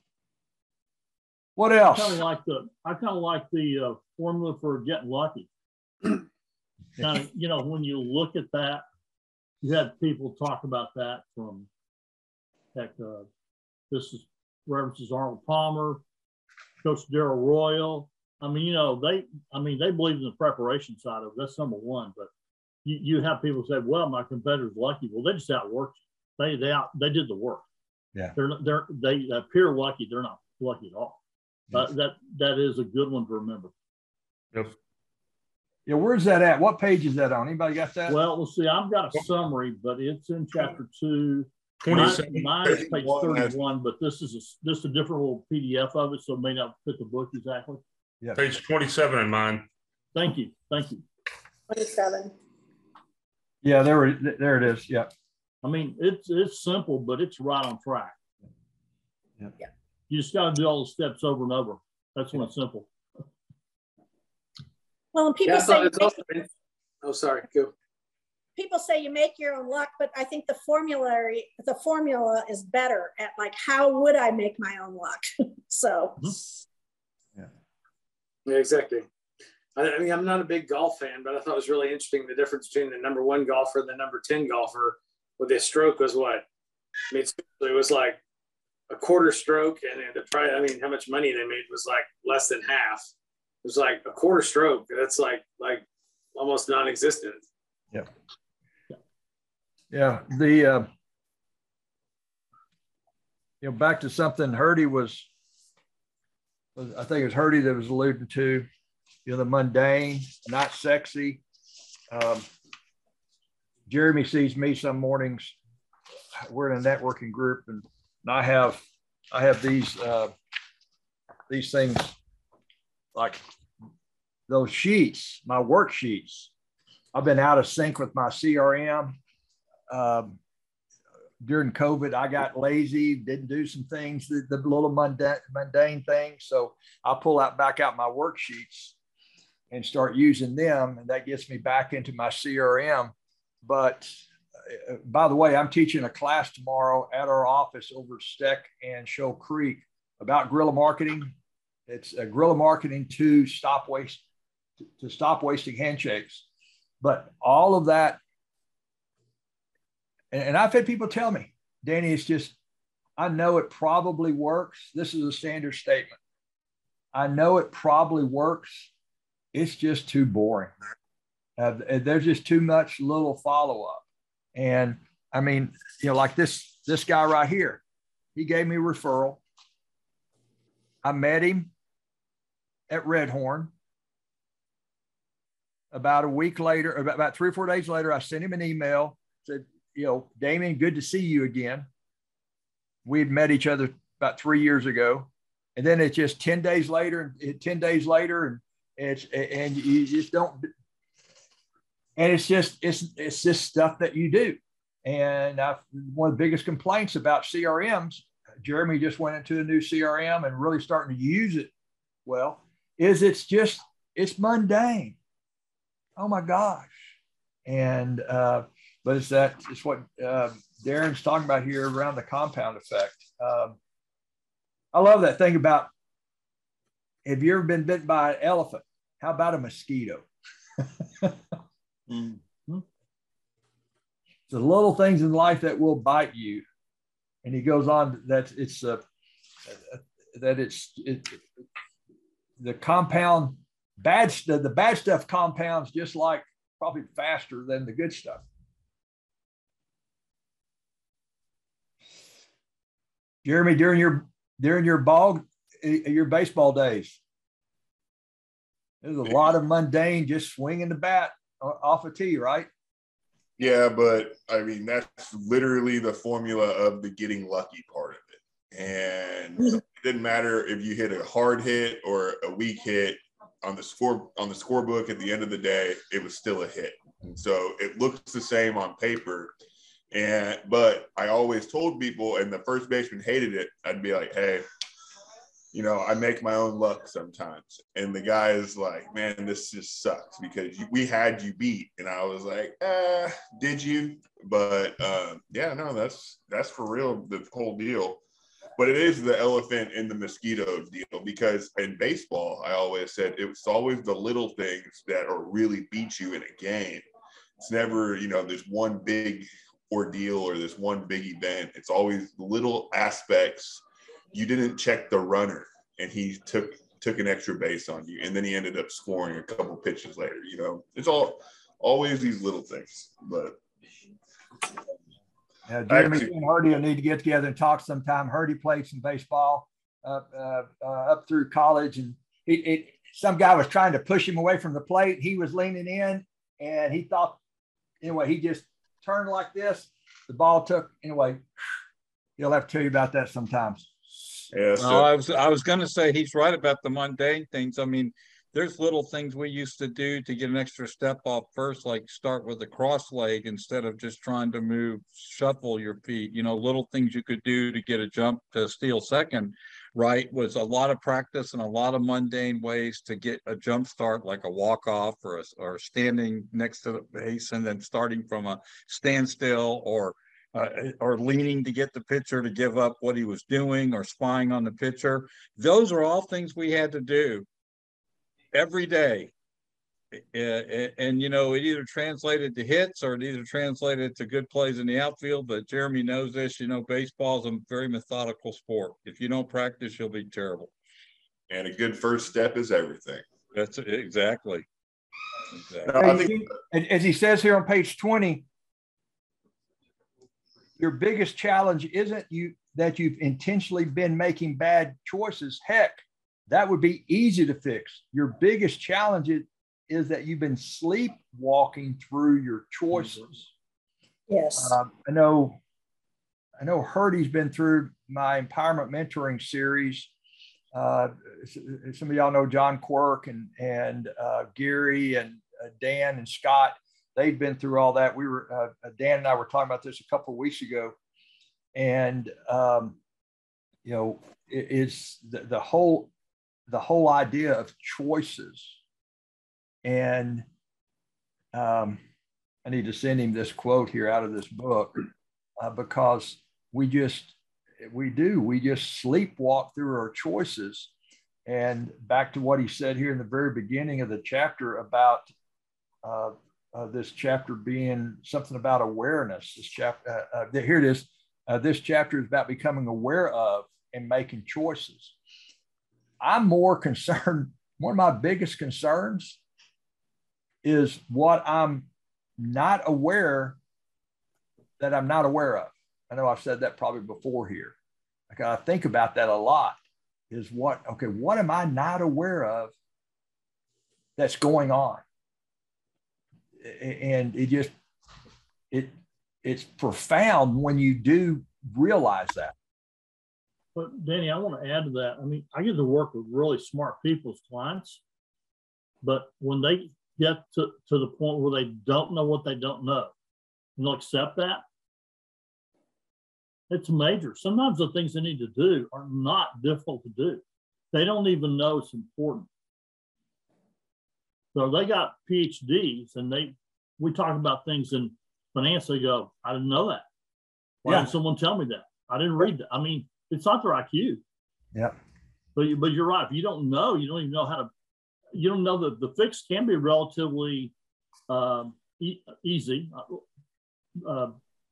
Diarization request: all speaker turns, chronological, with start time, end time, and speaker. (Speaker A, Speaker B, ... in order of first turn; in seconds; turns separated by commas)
Speaker A: 1.6-2.2, Speaker B: 1.9-5.5, Speaker B: 7.0-8.8, Speaker B: 9.6-11.7, Speaker B: 12.7-13.3, Speaker B: 13.9-16.0, Speaker B: 16.8-22.3, Speaker B: 22.8-27.6, Speaker B: 28.3-31.2, Speaker B: 31.7-33.7, Speaker A: 35.9-38.1, Speaker B: 38.1-47.8, Speaker C: 41.8-42.6, Speaker D: 42.0-43.5, Speaker C: 48.4-49.7, Speaker B: 50.1-51.0, Speaker E: 51.7-52.3, Speaker A: 53.6-55.1, Speaker B: 55.6-58.2, Speaker B: 60.1-62.9, Speaker E: 65.1-66.2, Speaker F: 65.4-66.5, Speaker F: 67.0-67.7, Speaker E: 68.5-76.4, Speaker F: 78.5-79.0, Speaker F: 79.8-86.4, Speaker F: 87.1-88.2, Speaker F: 88.9-93.0, Speaker F: 93.6-97.4, Speaker A: 99.9-100.9, Speaker A: 103.6-105.3, Speaker A: 106.8-108.7, Speaker A: 109.2-111.4, Speaker A: 112.1-112.5, Speaker A: 113.9-115.5, Speaker A: 116.4-120.3, Speaker A: 121.5-122.1, Speaker A: 123.1-123.4, Speaker A: 124.5-126.5, Speaker A: 127.1-129.2, Speaker A: 129.9-130.4, Speaker A: 131.4-138.9, Speaker A: 139.7-151.3, Speaker A: 151.9-154.2, Speaker A: 155.0-156.4, Speaker A: 157.0-158.2, Speaker A: 160.3-162.6, Speaker A: 163.2-166.2, Speaker A: 167.1-168.9, Speaker A: 169.5-170.7, Speaker A: 171.6-174.0, Speaker A: 174.5-177.8, Speaker A: 178.3-179.4, Speaker A: 181.0-181.7, Speaker A: 182.9-183.7, Speaker A: 185.9-191.9, Speaker A: 193.0-200.7, Speaker A: 202.2-211.7, Speaker A: 212.2-215.2, Speaker A: 216.2-216.9, Speaker A: 217.7-223.8, Speaker A: 224.9-225.9, Speaker A: 227.2-230.2, Speaker B: 232.1-232.8, Speaker A: 234.5-236.6, Speaker A: 237.4-239.0, Speaker A: 239.7-241.4, Speaker A: 242.6-248.4, Speaker A: 253.4-257.2, Speaker A: 259.0-262.7, Speaker D: 263.6-279.5, Speaker D: 280.1-284.6, Speaker D: 285.7-298.2, Speaker D: 298.8-307.0, Speaker D: 307.6-323.6, Speaker A: 325.7-337.4, Speaker D: 325.9-326.3, Speaker A: 338.0-341.4, Speaker A: 342.4-344.2, Speaker D: 344.5-345.1, Speaker G: 344.8-377.4, Speaker G: 378.5-379.3, Speaker G: 380.1-390.7, Speaker D: 391.5-393.2, Speaker G: 393.5-394.6, Speaker G: 395.7-396.1, Speaker D: 395.8-396.5, Speaker A: 396.0-398.4, Speaker A: 400.8-413.5, Speaker E: 414.3-414.8, Speaker A: 414.6-415.6, Speaker A: 416.6-420.1, Speaker A: 420.7-430.9, Speaker A: 431.7-433.0, Speaker A: 433.8-436.1, Speaker A: 436.7-438.8, Speaker A: 439.8-440.4, Speaker A: 441.5-442.0, Speaker A: 442.6-445.0, Speaker A: 445.6-450.9, Speaker A: 451.4-455.3, Speaker A: 456.0-465.1, Speaker A: 466.2-469.4, Speaker A: 470.6-471.9, Speaker A: 472.4-473.6, Speaker A: 474.8-477.7, Speaker A: 478.3-479.8, Speaker A: 480.3-482.7, Speaker A: 484.2-485.0, Speaker A: 486.6-487.7, Speaker A: 488.7-492.5, Speaker B: 493.7-498.0, Speaker B: 499.0-503.1, Speaker B: 503.8-504.6, Speaker B: 506.7-512.5, Speaker B: 514.5-520.0, Speaker B: 520.8-524.2, Speaker B: 525.5-527.7, Speaker B: 528.3-530.7, Speaker B: 531.3-533.2, Speaker B: 534.0-534.4